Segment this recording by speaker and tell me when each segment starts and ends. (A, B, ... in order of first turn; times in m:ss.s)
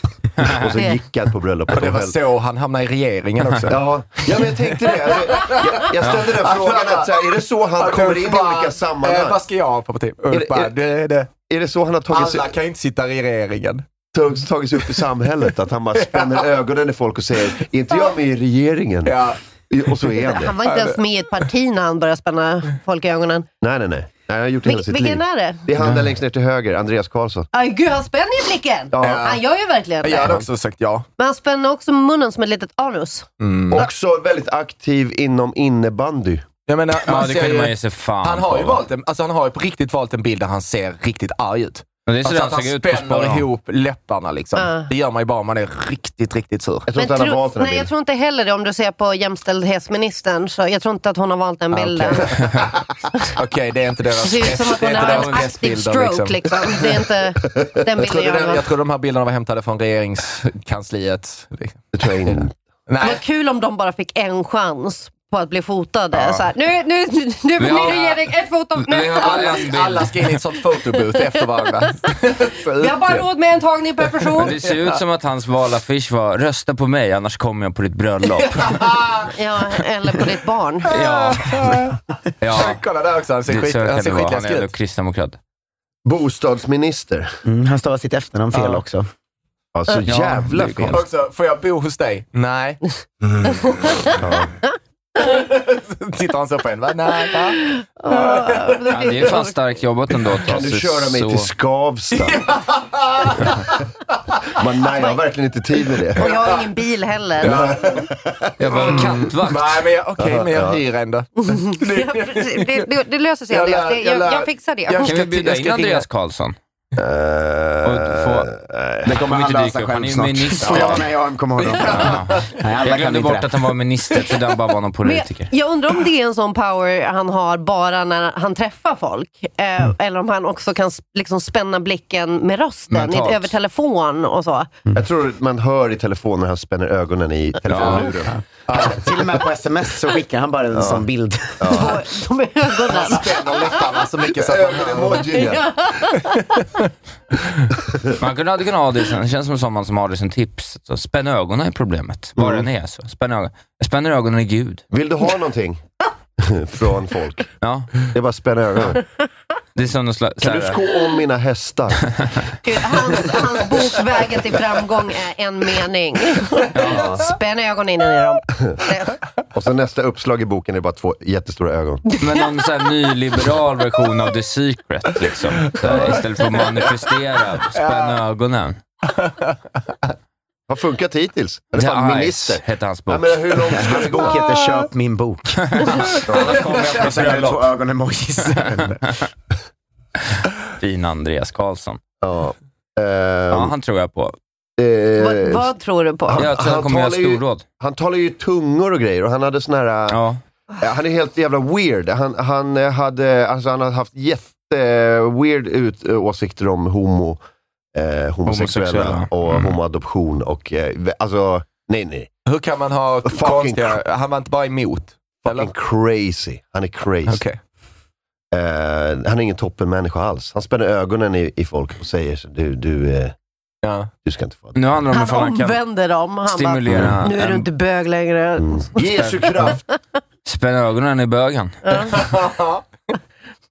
0:00.4-0:02.2 A
0:01.7-0:03.9 B
0:03.7-0:09.4 A
0:04.4-0:11.3 B
0:10.3-0:10.7 A
0:11.4-0:12.6 A
0:12.1-0:13.8 B
0:14.1-0:20.5 A
0:16.0-0:16.4 B
0:19.0-0:19.4 B
0:20.2-0:23.5 C
0:20.6-0:21.0 B
0:23.6-0:27.5 A
0:24.6-0:25.6 C
0:27.5-0:30.4 C
0:28.9-0:29.3 A
0:29.0-0:29.4 B
0:30.0-0:31.0 B
0:31.2-0:33.9 C
0:33.4-0:33.9 B
0:33.7-0:36.5 A
0:36.6-0:46.9 B
0:37.0-0:38.8 D
0:42.1-0:43.4 D
0:44.5-0:44.9 C
0:46.9-0:47.9 A
0:47.0-0:52.3 C
0:53.4-0:56.8 B
0:54.2-0:58.6 C
0:58.0-1:03.2 B
1:01.9-1:02.5 A
1:03.0-1:09.6 C
1:07.6-1:08.2 D
1:08.8-1:10.3 D
1:09.1-1:12.7 B
1:12.8-1:14.6 C
1:14.4-1:18.8 D
1:18.4-1:19.3 B
1:19.3-1:20.9 C
1:20.9-1:24.7 B
1:20.9-1:21.7 D
1:22.4-1:22.8 D
1:23.5-1:25.4 D
1:26.0-1:27.3 A
1:27.4-1:29.0 E
1:29.7-1:31.0 A
1:30.0-1:31.0 D
1:30.9-1:34.1 B
1:34.2-1:34.5 A
1:35.2-1:38.9 B
1:37.7-1:39.5 C
1:38.9-1:41.5 D
1:40.4-1:42.5 A
1:42.2-1:43.7 B
1:44.5-1:46.3 A
1:46.2-1:47.6 C
1:47.4-1:48.0 B
1:47.5-1:49.1 A
1:48.6-1:49.8 D
1:48.8-1:52.8 B
1:50.2-1:50.8 A
1:51.4-1:55.1 C
1:53.5-1:56.0 B
1:55.0-1:56.5 D
1:57.0-1:59.1 A
1:57.8-1:58.5 D
1:59.0-2:03.5 E
1:59.1-2:01.1 D
2:01.6-2:02.5 B
2:01.8-2:05.5 D
2:05.0-2:14.7 C
2:12.9-2:13.5 D
2:14.9-2:18.4 A
2:17.7-2:18.1 D
2:17.8-2:18.0 B
2:18.7-2:21.9 E
2:18.7-2:19.0 B
2:20.7-2:21.0 A
2:21.6-2:22.0 A
2:21.7-2:23.8 C
2:22.9-2:25.3 B
2:24.4-2:25.7 A
2:25.2-2:26.6 C
2:28.2-2:34.8 D
2:32.4-2:32.7 A
2:34.9-2:35.8 A
2:36.4-2:37.5 A
2:37.6-2:38.1 D
2:38.1-2:39.0 A
2:39.8-2:40.8 D
2:40.4-2:42.5 A
2:42.6-2:49.2 C
2:46.7-2:47.2 D
2:46.9-2:47.2 A
2:49.5-2:52.0 A
2:52.0-2:52.6 C
2:52.2-2:58.8 D
2:55.8-2:56.1 B
2:57.7-2:58.2 B
2:59.1-2:59.8 B
3:00.7-3:04.4 A
3:01.7-3:03.8 D
3:03.7-3:09.0 E
3:05.7-3:07.5 D
3:06.3-3:06.7 A
3:06.4-3:07.6 B
3:10.8-3:12.0 D
3:12.2-3:13.7 A
3:13.5-3:14.4 D
3:14.8-3:15.7 A
3:15.2-3:16.5 C
3:16.3-3:20.2 A
3:16.4-3:17.6 D
3:20.1-3:20.4 D
3:20.8-3:27.4 A
3:27.9-3:32.3 A
3:28.4-3:29.8 D
3:32.4-3:35.7 B
3:33.2-3:34.0 A
3:35.4-3:37.4 A
3:37.3-3:37.6 B
3:38.5-3:43.3 A
3:43.8-3:44.1 B
3:44.2-3:45.0 A
3:44.7-3:45.8 D
3:45.1-3:49.0 C
3:46.4-3:47.7 D
3:46.9-3:47.1 A
3:48.6-3:49.8 A
3:49.0-3:49.4 D
3:50.4-3:51.9 D
3:51.8-3:52.2 C
3:52.1-3:52.8 B